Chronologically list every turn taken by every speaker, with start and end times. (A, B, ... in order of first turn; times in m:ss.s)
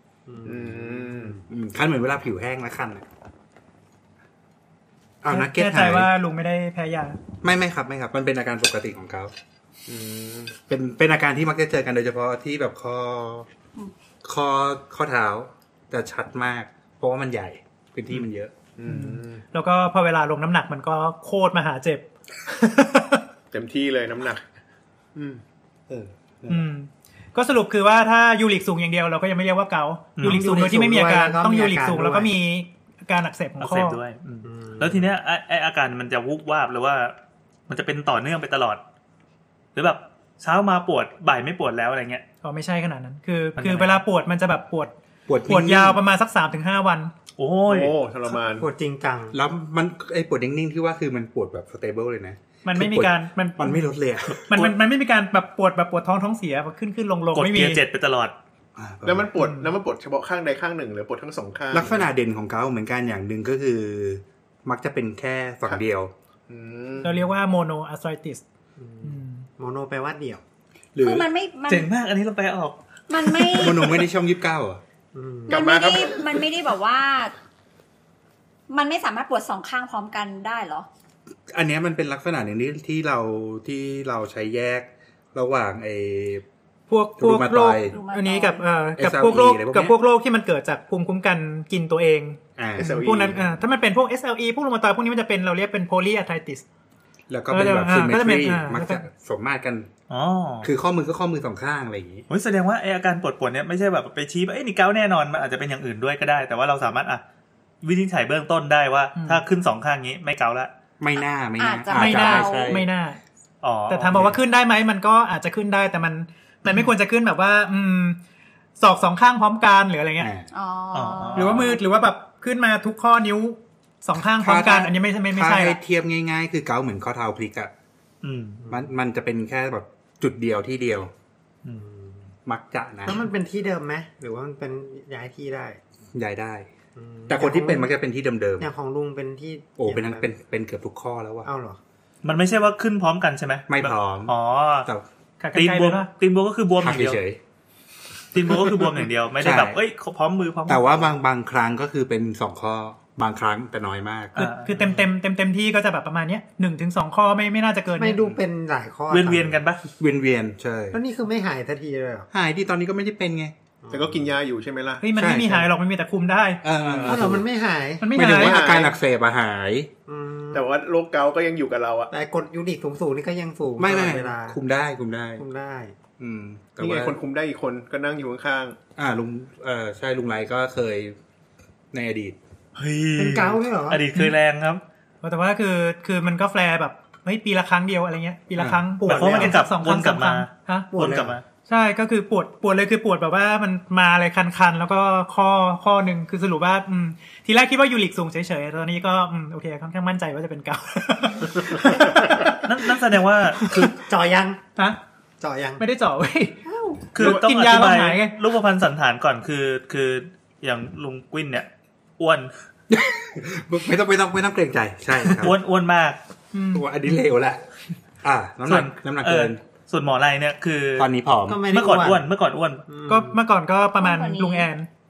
0:00.3-0:01.4 A
0:00.4-0:01.4 B
0:01.5-0:03.0 C
0:05.2-0:06.1 C
0:05.3-0:07.2 D
0:07.4-0:09.3 C
0:09.9-0:10.5 B
0:10.7-0:13.5 C
0:14.2-0:18.5 C
0:18.8-0:19.4 B
0:18.8-0:23.2 D
0:23.5-0:24.4 B
0:25.2-0:25.4 B
0:25.9-0:26.7 C
0:26.5-0:34.0 D
0:30.2-0:30.4 E
0:30.2-0:32.3 A
0:33.6-0:37.1 E
0:34.4-0:35.1 A
0:37.7-0:38.8 E
0:39.7-0:42.2 E
0:42.4-0:44.9 D
0:43.6-0:44.0 E
0:45.3-0:46.0 C
0:45.4-0:47.1 D
0:47.4-0:47.9 E
0:47.6-0:48.7 B
0:48.6-0:49.4 A
0:49.3-0:54.5 C
0:52.6-0:53.8 D
0:54.4-0:54.7 E
0:54.5-0:57.8 D
0:57.3-0:58.3 E
0:58.8-0:59.3 C
0:59.0-1:02.0 B
0:59.4-0:59.7 D
1:01.7-1:06.1 C
1:06.5-1:07.2 B
1:07.0-1:08.4 D
1:08.8-1:10.4 A
1:09.0-1:09.5 D
1:11.0-1:11.2 C
1:11.0-1:11.9 F
1:11.7-1:13.9 E
1:13.1-1:14.0 F
1:13.5-1:14.8 C
1:15.1-1:15.6 A
1:15.5-1:16.3 B
1:15.5-1:17.3 F
1:18.7-1:20.9 F
1:21.5-1:26.4 C
1:26.9-1:36.6 D
1:27.2-1:28.0 C
1:27.8-1:28.7 F
1:29.0-1:30.0 C
1:32.6-1:33.0 C
1:32.7-1:33.4 B
1:37.3-1:39.9 C
1:37.5-1:39.0 D
1:40.1-1:40.7 E
1:40.6-1:42.2 C
1:42.3-1:47.2 E
1:47.8-1:50.7 E
1:49.2-1:49.4 D
1:51.0-1:52.9 C
1:51.6-1:52.7 F
1:51.9-1:53.2 D
1:53.6-1:54.3 E
1:53.9-1:58.2 D
1:58.8-2:00.3 D
2:00.2-2:00.5 C
2:00.5-2:01.8 F
2:00.9-2:01.8 E
2:01.4-2:05.8 D
2:04.3-2:07.7 C
2:08.2-2:08.6 E
2:08.6-2:08.9 A
2:08.7-2:11.1 C
2:11.8-2:12.2 A
2:12.4-2:13.2 C
2:13.0-2:15.8 A
2:16.1-2:16.7 C
2:17.0-2:17.9 A
2:17.3-2:18.7 C
2:18.6-2:20.3 A
2:19.8-2:21.5 C
2:21.4-2:21.8 A
2:22.2-2:24.9 E
2:23.7-2:25.0 C
2:25.4-2:26.1 D
2:25.5-2:27.2 E
2:26.8-2:27.4 C
2:28.3-2:31.1 E
2:29.4-2:29.8 C
2:30.7-2:34.4 C
2:34.4-2:34.8 E
2:34.4-2:38.2 D
2:38.0-2:39.6 A
2:39.1-2:39.8 E
2:40.0-2:41.0 C
2:40.9-2:42.3 A
2:42.3-2:43.5 C
2:43.8-2:44.3 A
2:43.9-2:45.0 B
2:45.0-2:46.6 D
2:45.1-2:45.7 C
2:46.6-2:47.5 C
2:46.8-2:48.1 A
2:48.0-2:48.6 D
2:48.1-2:49.9 C
2:48.3-2:48.9 B
2:50.1-2:50.7 A
2:50.5-2:52.1 B
2:52.1-2:54.6 A
2:53.8-2:55.4 C
2:55.4-2:56.0 A
2:56.2-2:57.2 C
2:56.8-2:58.8 B
2:59.0-3:01.2 C
3:01.9-3:02.4 C
3:02.8-3:04.8 E
3:03.2-3:04.0 A
3:05.2-3:10.9 D
3:08.6-3:08.9 C
3:09.0-3:11.4 E
3:09.1-3:09.6 A
3:10.9-3:11.4 A
3:11.7-3:22.6 D
3:22.5-3:23.9 E
3:23.6-3:23.9 D
3:23.9-3:24.6 A
3:25.4-3:25.8 A
3:25.8-3:26.6 D
3:26.7-3:27.0 A
3:27.1-3:28.3 D
3:27.1-3:31.7 E
3:32.2-3:32.5 E
3:32.9-3:35.6 C
3:35.3-3:36.2 E
3:36.5-3:36.9 D
3:36.7-3:37.6 C
3:38.2-3:39.6 C
3:38.6-3:41.1 E
3:41.0-3:41.7 C
3:41.5-3:42.2 A
3:41.7-3:42.8 E
3:42.9-3:43.4 A
3:43.1-3:44.9 D
3:44.0-3:44.7 F